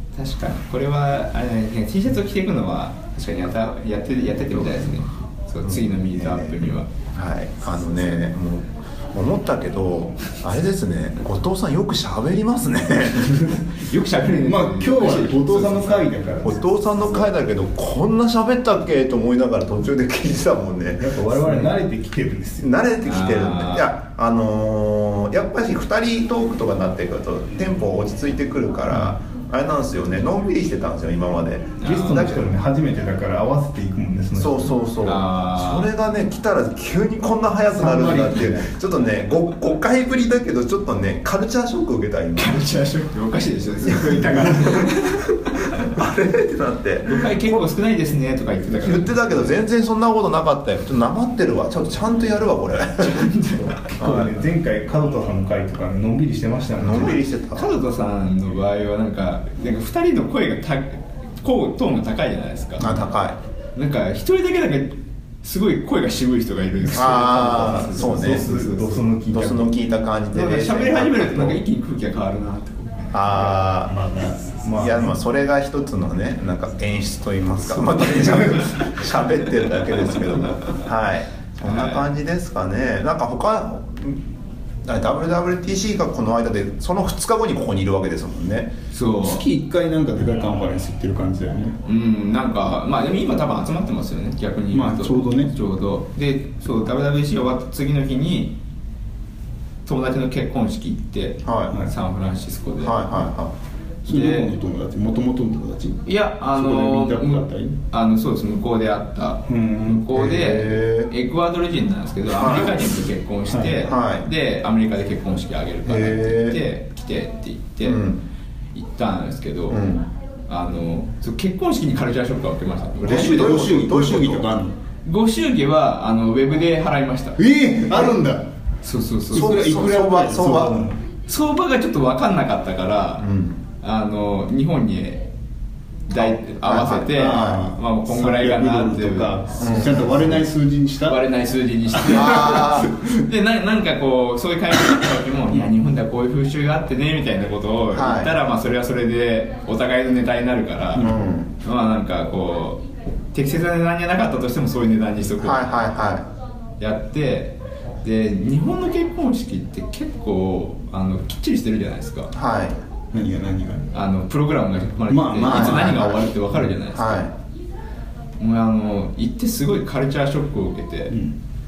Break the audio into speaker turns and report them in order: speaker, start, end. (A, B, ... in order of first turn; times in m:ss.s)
0:00.1-0:06.9 A
0:05.6-0:13.6 B
0:13.7-0:16.2 A
0:14.4-0:16.6 C
0:16.4-0:21.7 B
0:21.0-0:22.7 C
0:22.6-0:32.5 B
0:23.0-0:23.9 A
0:31.8-0:32.3 A
0:31.8-0:34.7 C
0:34.4-0:42.6 B
0:35.0-0:35.9 A
0:37.7-0:38.7 C
0:42.4-0:46.0 A
0:43.9-0:44.9 B
0:45.9-0:47.6 B
0:47.0-0:49.5 A
0:48.8-0:53.3 B
0:53.0-0:53.9 A
0:53.9-0:57.2 C
0:54.0-0:54.3 B
0:56.8-0:57.7 B
0:57.5-1:02.9 A
1:02.8-1:03.4 B
1:03.8-1:09.0 A
1:06.9-1:08.4 B
1:07.3-1:09.7 C
1:09.3-1:11.6 B
1:10.3-1:13.5 A
1:13.1-1:13.9 B
1:13.8-1:15.2 C
1:14.8-1:24.3 B
1:17.9-1:18.7 A
1:18.1-1:18.4 C
1:20.3-1:20.8 A
1:21.6-1:22.0 A
1:24.8-1:28.7 B
1:28.9-1:29.4 A
1:29.2-1:31.8 C
1:31.8-1:38.6 A
1:34.7-1:35.5 C
1:39.9-1:43.2 A
1:41.4-1:41.8 B
1:42.8-1:43.5 B
1:44.1-1:44.5 A
1:44.1-1:47.8 C
1:46.1-1:58.1 A
1:49.5-1:50.1 C
1:50.1-1:51.1 B
1:52.3-1:52.9 B
1:53.5-1:53.8 C
1:53.8-1:54.3 B
1:55.9-1:56.6 B
1:57.8-1:58.2 B
1:58.7-1:59.9 A
1:59.7-2:00.1 B
2:00.5-2:03.7 A
2:03.0-2:04.5 B
2:03.0-2:04.8 C
2:05.0-2:07.4 A
2:07.4-2:08.4 C
2:08.8-2:09.5 A
2:09.3-2:11.0 C
2:09.3-2:10.8 B
2:11.3-2:13.3 A
2:13.2-2:13.6 B
2:13.8-2:15.3 A
2:16.1-2:20.0 A
2:16.2-2:17.6 B
2:17.0-2:21.2 C
2:19.6-2:20.4 B
2:21.0-2:35.8 A
2:21.9-2:23.2 C
2:22.1-2:22.9 B
2:27.9-2:28.3 B
2:31.0-2:31.2 C
2:31.0-2:31.5 B
2:35.4-2:36.2 B
2:36.8-2:42.3 A
2:42.3-2:42.8 B
2:43.1-2:43.9 C
2:43.9-2:47.3 A
2:45.1-2:46.6 C
2:45.5-2:46.0 B
2:46.9-2:47.3 B
2:48.4-2:51.2 A